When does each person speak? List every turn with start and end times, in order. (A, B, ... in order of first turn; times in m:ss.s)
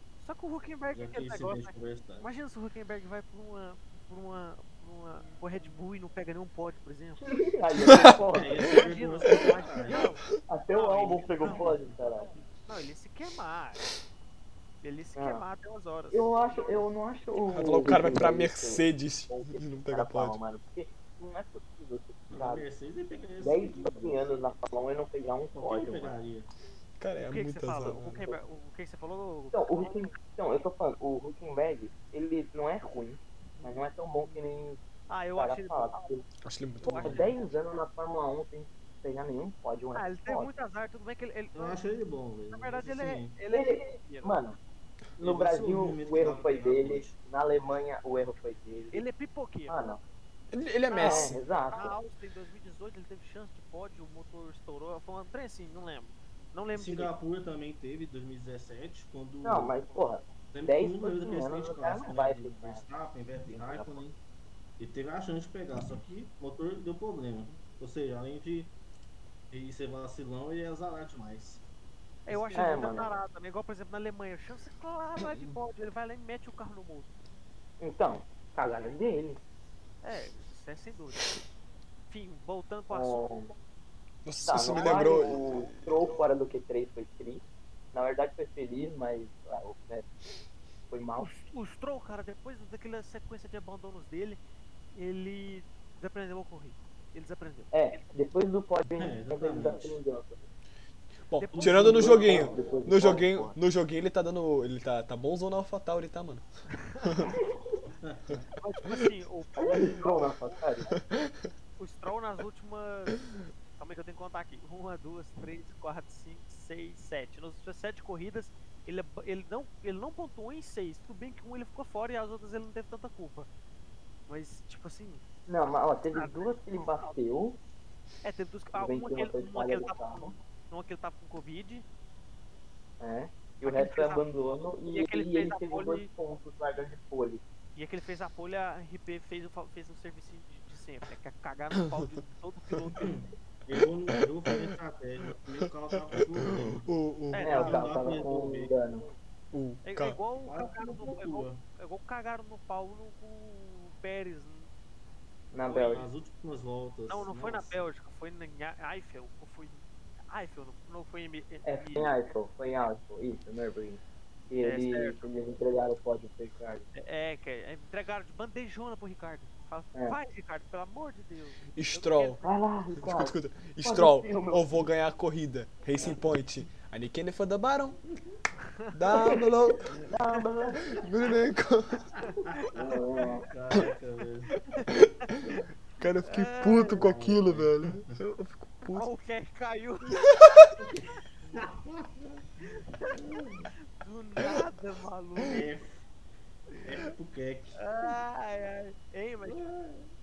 0:00.2-0:07.4 A
0:00.9-0:02.3 B
0:07.2-0:08.8 C
0:07.9-0:08.2 D
0:08.3-0:10.2 B
0:08.7-0:11.8 A
0:10.5-0:12.3 C
0:11.4-0:12.0 B
0:12.6-0:13.9 A
0:14.8-0:16.3 A
0:15.2-0:15.4 C
0:16.1-0:22.6 C
0:17.5-0:20.4 D
0:22.3-0:24.2 B
0:23.4-0:26.2 C
0:25.5-0:26.5 B
0:27.0-0:28.2 D
0:27.3-0:29.9 A
0:29.5-0:34.8 C
0:35.1-0:36.0 A
0:35.4-0:36.2 C
0:36.4-0:37.2 D
0:36.8-0:37.4 A
0:36.9-0:40.5 C
0:39.9-0:41.8 A
0:41.5-0:43.3 B
0:42.5-0:44.4 A
0:43.5-0:44.6 C
0:45.2-0:49.0 C
0:45.2-0:47.2 B
0:48.9-0:49.8 A
0:49.7-0:50.0 C
0:50.5-0:51.4 D
0:50.9-0:57.1 A
0:50.9-0:52.0 C
0:56.7-0:59.8 B
0:59.4-1:02.8 C
1:00.5-1:04.2 B
1:03.4-1:04.0 C
1:04.8-1:08.7 B
1:09.5-1:11.6 B
1:12.2-1:17.1 A
1:12.3-1:13.0 B
1:12.5-1:13.1 C
1:17.8-1:19.4 C
1:20.0-1:21.4 A
1:22.1-1:23.2 A
1:22.9-1:23.5 C
1:24.2-1:25.9 D
1:24.4-1:30.1 C
1:24.7-1:25.4 A
1:30.9-1:31.4 C
1:31.2-1:34.4 A
1:34.9-1:37.7 A
1:37.7-1:40.4 C
1:39.0-1:40.0 B
1:41.3-1:46.4 D
1:41.4-1:42.1 A
1:41.5-1:42.8 B
1:41.9-1:43.6 C
1:46.8-1:47.2 A
1:47.0-1:47.3 D
1:47.3-1:47.5 C
1:48.0-1:48.5 B
1:48.6-1:50.2 A
1:49.6-1:50.9 C
1:50.9-1:51.5 D
1:51.8-1:53.2 A
1:53.8-2:03.5 A
2:04.3-2:05.2 A
2:05.5-2:07.6 C
2:06.1-2:07.2 A
2:08.2-2:11.8 A
2:08.7-2:10.3 C
2:13.0-2:17.4 C
2:13.6-2:14.2 A
2:14.9-2:16.1 A
2:17.8-2:23.2 A
2:23.0-2:26.9 B
2:26.1-2:27.8 D
2:27.3-2:27.8 A
2:27.4-2:28.7 B
2:27.4-2:29.1 C
2:29.5-2:30.2 D
2:29.8-2:34.7 A
2:30.4-2:31.6 B
2:35.5-2:36.1 C
2:35.6-2:37.8 B
2:37.1-2:42.2 A
2:41.6-2:46.9 C
2:44.6-2:45.2 A
2:46.9-2:52.5 A
2:51.7-2:52.4 D
2:52.4-2:54.8 C
2:53.0-2:58.0 D
2:58.6-2:59.3 A
2:58.9-3:00.0 D
2:59.1-3:01.0 C
3:00.9-3:02.2 D
3:02.2-3:04.8 B
3:02.3-3:02.6 A
3:02.7-3:03.5 C
3:04.8-3:05.3 A
3:04.9-3:09.1 D
3:06.2-3:07.1 A
3:06.9-3:08.1 B
3:08.9-3:10.4 A
3:10.2-3:10.7 D
3:10.8-3:12.4 B
3:12.6-3:13.2 A
3:13.1-3:13.7 B
3:13.9-3:15.7 A
3:15.4-3:16.0 B
3:16.7-3:18.1 B
3:17.8-3:19.6 A
3:19.4-3:20.1 B